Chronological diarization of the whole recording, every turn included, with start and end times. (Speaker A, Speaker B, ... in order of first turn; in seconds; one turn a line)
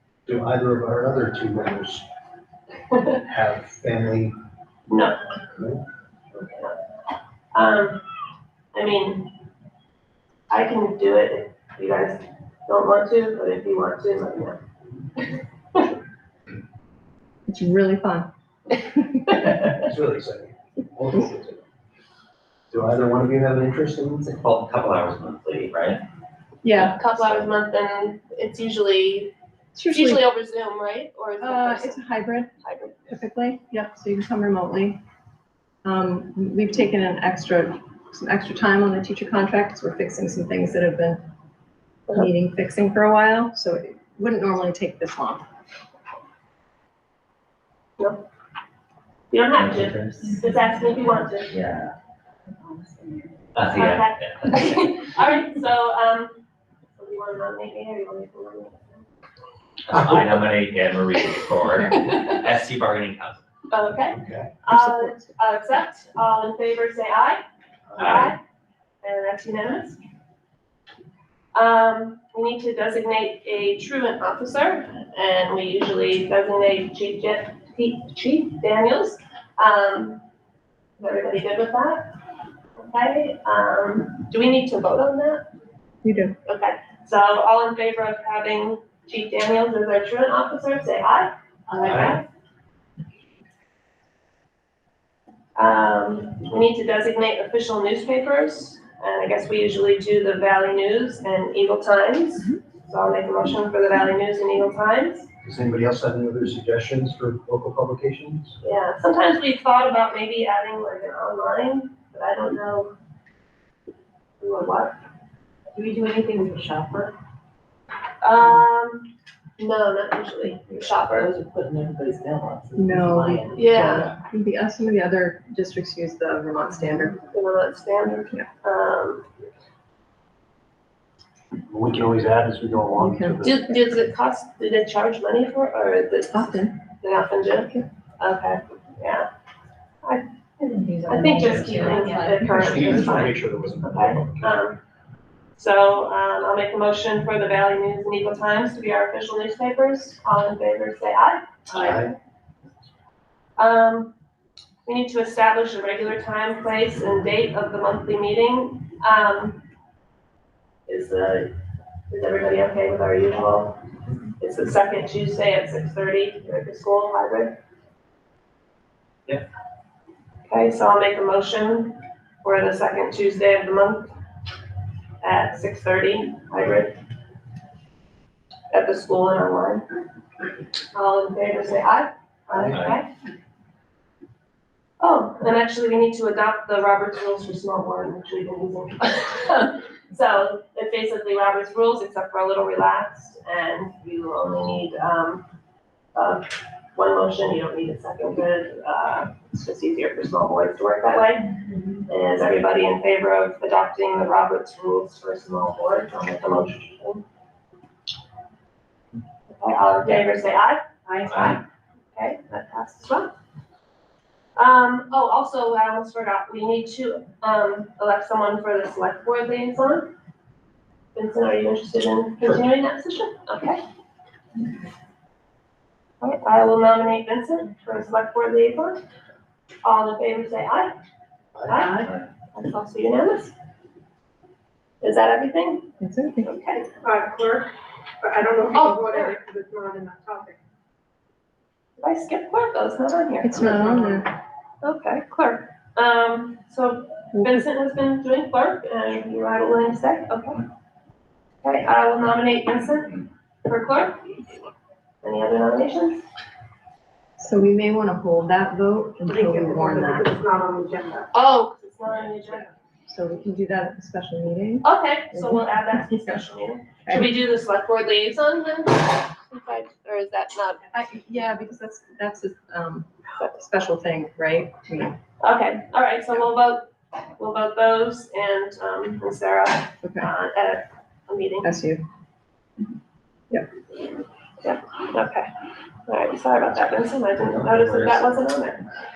Speaker A: 0.3-2.0
Speaker A: 3.1-4.4
Speaker B: 4.9-5.2
Speaker A: 5.5-5.8
Speaker B: 6.4-6.8
Speaker B: 7.5-8.0
Speaker B: 8.7-9.3
Speaker B: 10.5-14.6
Speaker B: 15.2-15.8
Speaker C: 17.5-18.3
Speaker C: 18.8-19.4
Speaker A: 19.6-21.6
Speaker A: 22.7-24.4
Speaker D: 24.4-26.0
Speaker C: 26.6-27.0
Speaker B: 26.9-29.3
Speaker C: 29.8-30.2
Speaker B: 29.9-32.0
Speaker C: 31.4-32.5
Speaker B: 32.6-33.1
Speaker C: 33.1-35.0
Speaker C: 35.8-41.2
Speaker C: 42.1-45.4
Speaker B: 49.3-51.6
Speaker D: 49.5-50.3
Speaker D: 51.5-51.9
Speaker E: 52.7-53.1
Speaker D: 53.5-54.9
Speaker B: 53.7-56.4
Speaker B: 57.0-59.1
Speaker D: 59.9-63.4
Speaker B: 63.7-67.4
Speaker A: 64.1-64.5
Speaker C: 64.7-65.2
Speaker A: 67.9-68.3
Speaker B: 68.0-68.4
Speaker B: 69.0-70.0
Speaker B: 71.5-80.2
Speaker B: 81.0-82.1
Speaker B: 82.8-85.5
Speaker C: 86.0-86.3
Speaker B: 86.5-92.2
Speaker A: 91.8-92.2
Speaker B: 95.6-105.3
Speaker A: 105.4-108.6
Speaker B: 108.6-112.9
Speaker B: 114.4-115.0
Speaker E: 115.8-117.1
Speaker B: 118.2-121.3
Speaker E: 121.1-124.0
Speaker C: 122.8-127.2
Speaker B: 123.5-124.1
Speaker B: 127.2-129.3
Speaker A: 131.7-133.7
Speaker C: 133.0-133.5
Speaker B: 133.4-139.3
Speaker C: 136.3-136.8
Speaker B: 140.0-144.8
Speaker C: 140.7-143.2
Speaker A: 142.4-144.6
Speaker B: 145.6-152.1
Speaker A: 151.7-152.2
Speaker B: 153.6-154.1
Speaker B: 154.9-159.6
Speaker B: 160.9-161.5
Speaker B: 162.1-163.8
Speaker B: 164.4-167.6
Speaker B: 170.5-174.1
Speaker B: 175.2-177.0
Speaker B: 178.7-179.8
Speaker B: 180.9-183.1
Speaker D: 182.6-183.0
Speaker B: 185.0-195.4
Speaker B: 196.2-201.5
Speaker B: 202.1-207.2
Speaker B: 209.5-211.6
Speaker D: 211.3-211.6
Speaker B: 212.2-213.3
Speaker B: 214.6-220.1
Speaker B: 221.2-223.8
Speaker B: 226.2-229.0
Speaker B: 229.8-230.9
Speaker B: 231.7-233.5
Speaker B: 235.0-235.9
Speaker C: 236.0-236.5
Speaker B: 236.4-236.9
Speaker F: 237.0-240.6
Speaker B: 238.7-239.4
Speaker B: 242.0-244.2
Speaker C: 243.4-244.3
Speaker B: 244.8-250.7
Speaker C: 247.3-247.6
Speaker B: 251.6-254.4
Speaker B: 255.2-256.2
Speaker C: 257.4-260.3
Speaker F: 259.3-261.3
Speaker B: 261.3-262.7
Speaker C: 263.1-266.4
Speaker B: 264.8-270.9
Speaker C: 270.9-275.2
Speaker B: 275.4-276.9
Speaker B: 277.4-281.7
Speaker C: 280.0-280.3
Speaker C: 281.6-282.0
Speaker B: 284.6-285.5
Speaker B: 286.1-288.8
Speaker A: 287.4-288.3